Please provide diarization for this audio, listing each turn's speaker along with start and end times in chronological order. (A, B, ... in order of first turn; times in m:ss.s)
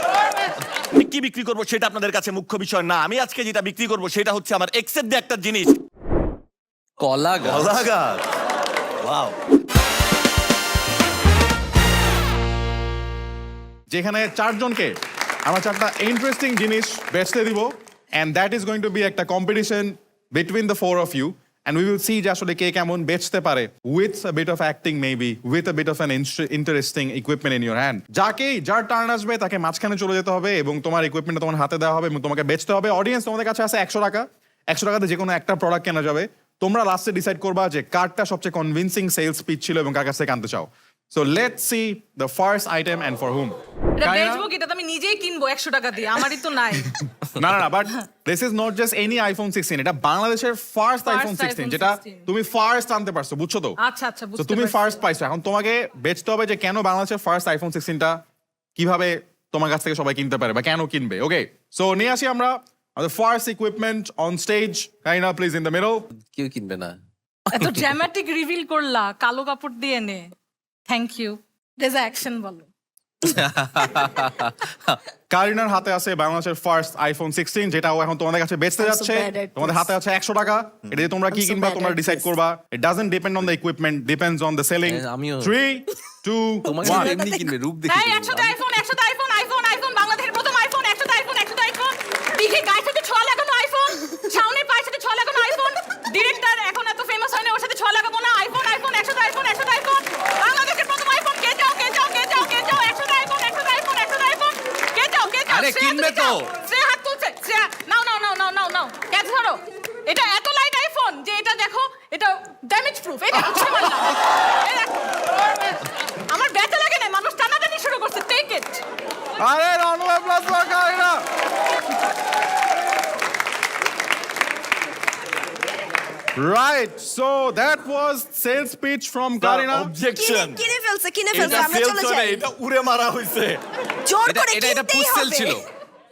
0:00.9-0:05.8 A
0:07.0-0:07.8 B
0:07.4-0:08.2 A
0:09.0-0:09.4 A
0:13.9-0:44.5 C
0:44.0-0:47.0 D
0:47.3-0:53.8 C
0:51.0-0:52.3 D
0:53.8-0:55.0 D
0:54.4-0:58.2 C
0:58.8-1:06.1 C
1:06.2-1:07.0 B
1:07.5-1:10.3 D
1:07.5-1:07.9 B
1:10.9-1:12.7 D
1:13.2-1:15.0 B
1:15.3-1:27.2 C
1:18.8-1:19.9 E
1:21.3-1:22.3 E
1:24.9-1:25.5 B
1:26.7-1:28.6 B
1:26.8-1:27.5 E
1:27.9-1:58.8 D
1:45.5-1:46.5 B
1:53.4-1:54.0 C
1:59.4-2:01.2 C
2:06.4-2:09.9 C
2:09.4-2:10.6 A
2:10.2-2:12.5 E
2:11.3-2:13.6 A
2:14.1-2:15.7 E
2:14.2-2:15.6 B